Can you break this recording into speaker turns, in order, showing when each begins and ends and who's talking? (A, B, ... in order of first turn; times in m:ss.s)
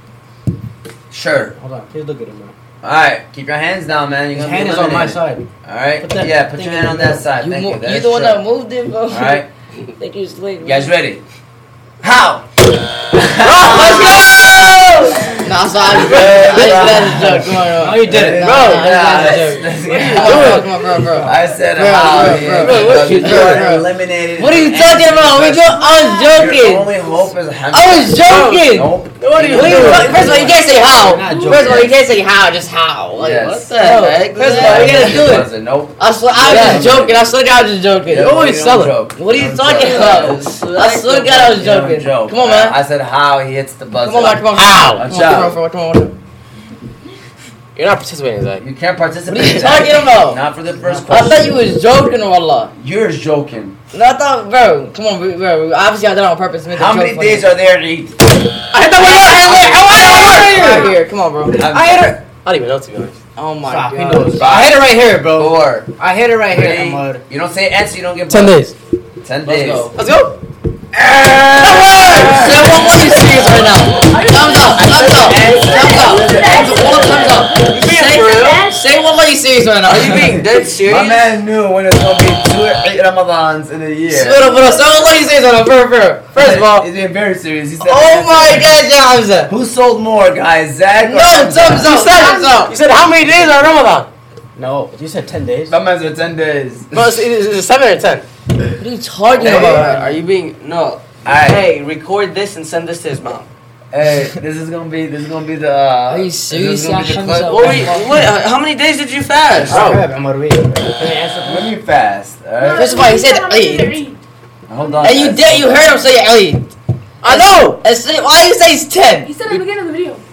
0:01.1-0:01.5 A
0:01.5-0:02.6 B
0:02.8-0:08.4 A
0:04.3-0:05.5 B
0:06.0-0:07.3 B
0:07.4-0:09.4 C
0:09.1-0:09.5 A
0:10.0-0:10.9 C
0:10.6-0:11.2 A
0:12.0-0:12.5 A
0:13.1-0:30.5 A
0:13.4-0:15.0 D
0:13.6-0:14.2 C
0:15.4-0:26.9 C
0:15.9-0:17.0 D
0:17.7-0:18.5 B
0:18.4-0:19.0 D
0:19.8-0:20.8 D
0:21.0-0:21.4 B
0:22.6-0:23.6 D
0:25.7-0:26.5 E
0:27.7-0:28.9 C
0:28.2-0:30.5 D
0:29.5-0:38.4 C
0:29.6-0:31.9 B
0:31.5-0:31.9 A
0:33.2-0:37.2 A
0:34.6-0:35.1 B
0:36.5-0:36.8 D
0:38.1-0:45.6 A
0:38.1-0:39.0 D
0:39.2-0:42.8 C
0:39.8-0:41.6 F
0:44.0-0:46.2 C
0:44.5-0:45.1 D
0:47.8-0:48.6 D
0:48.6-0:51.4 A
0:49.3-0:50.4 C
0:50.8-0:51.1 B
0:51.0-0:52.7 C
0:52.7-0:53.8 A
0:53.9-0:57.5 C
0:56.7-0:58.2 A
0:58.7-1:00.9 D
0:58.9-1:01.6 C
0:59.9-1:00.9 B
1:01.5-1:02.2 A
1:01.7-1:02.1 B
1:02.4-1:03.2 D
1:03.4-1:04.4 C
1:03.6-1:07.2 B
1:04.3-1:05.9 A
1:06.5-1:08.6 A
1:08.3-1:08.8 D
1:09.2-1:09.9 A
1:09.4-1:10.0 F
1:09.9-1:10.4 D
1:10.9-1:13.0 A
1:11.6-1:13.6 D
1:12.0-1:20.4 C
1:13.9-1:17.8 E
1:14.7-1:17.5 A
1:17.7-1:18.7 F
1:18.4-1:19.1 E
1:19.8-1:21.3 F
1:20.3-1:24.4 A
1:24.1-1:26.4 C
1:24.4-1:25.3 E
1:26.3-1:26.9 D
1:26.3-1:28.8 A
1:27.8-1:29.5 C
1:29.5-1:31.9 A
1:31.0-1:32.7 C
1:31.8-1:34.1 D
1:31.8-1:32.5 F
1:34.6-1:35.7 B
1:35.7-1:37.0 A
1:36.9-1:38.2 D
1:38.8-1:40.2 C
1:39.4-1:40.0 A
1:39.4-1:43.5 F
1:41.2-1:41.7 A
1:43.9-1:47.9 A
1:46.1-1:48.1 C
1:47.4-1:50.0 F
1:49.7-1:51.7 B
1:49.7-1:50.0 D
1:51.4-1:53.0 A
1:52.6-1:54.2 E
1:52.7-1:54.0 C
1:54.7-1:56.0 A
1:54.8-1:55.4 E
1:55.0-1:56.7 C
1:57.2-1:57.8 D
1:57.2-1:59.3 C
1:59.2-2:00.2 E